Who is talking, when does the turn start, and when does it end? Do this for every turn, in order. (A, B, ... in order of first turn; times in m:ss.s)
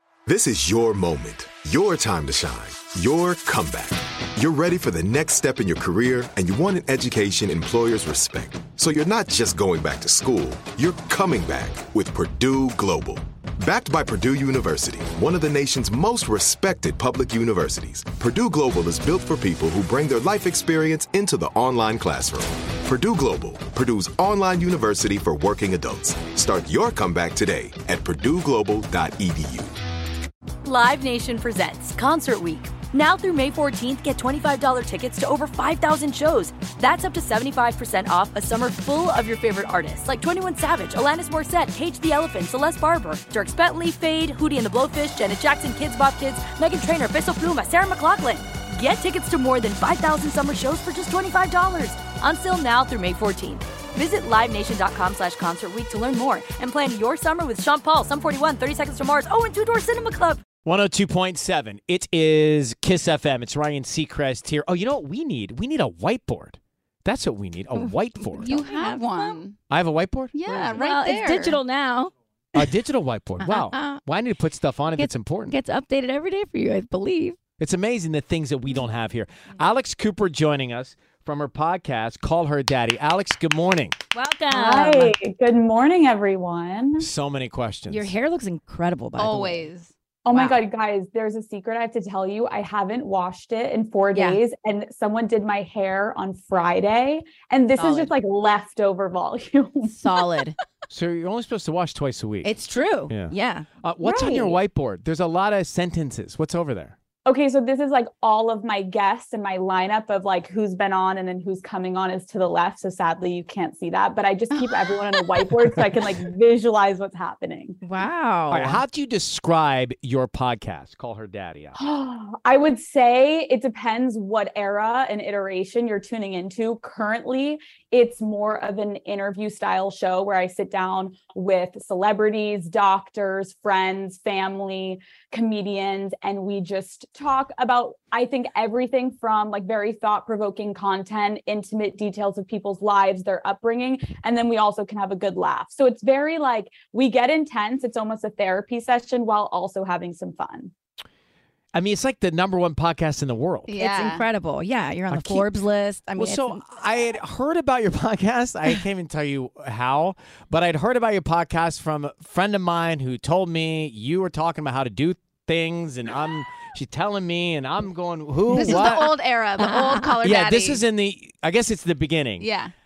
0:00.3-0:29.7 A
0:30.6-1:00.4 B
1:00.6-1:08.5 C
1:08.4-1:09.4 D
1:08.4-1:09.6 E
1:09.7-1:10.4 C
1:10.4-1:11.6 E
1:10.5-1:12.1 D
1:12.5-1:15.6 C
1:13.4-1:14.0 D
1:15.0-1:17.4 D
1:17.6-1:24.0 C
1:24.1-1:25.1 D
1:24.5-1:27.1 F
1:27.0-1:28.1 C
1:27.9-1:29.7 D
1:29.2-1:30.5 E
1:30.3-1:40.1 F
1:34.1-1:34.4 D
1:37.8-1:38.1 D
1:39.9-1:40.6 D
1:40.9-1:42.5 C
1:42.4-1:43.7 D
1:43.1-1:47.0 C
1:44.0-1:44.6 F
1:47.2-1:57.8 F
1:54.6-1:55.5 D
1:57.8-1:58.8 D
1:58.5-2:01.8 C
2:01.8-2:30.7 F
2:31.7-2:33.7 C
2:33.7-2:34.3 E
2:33.8-2:36.6 D
2:35.1-2:35.5 C
2:36.2-2:49.2 C
2:48.5-2:50.8 E
2:49.6-2:50.1 D
2:50.2-2:52.5 C
2:52.4-2:52.7 E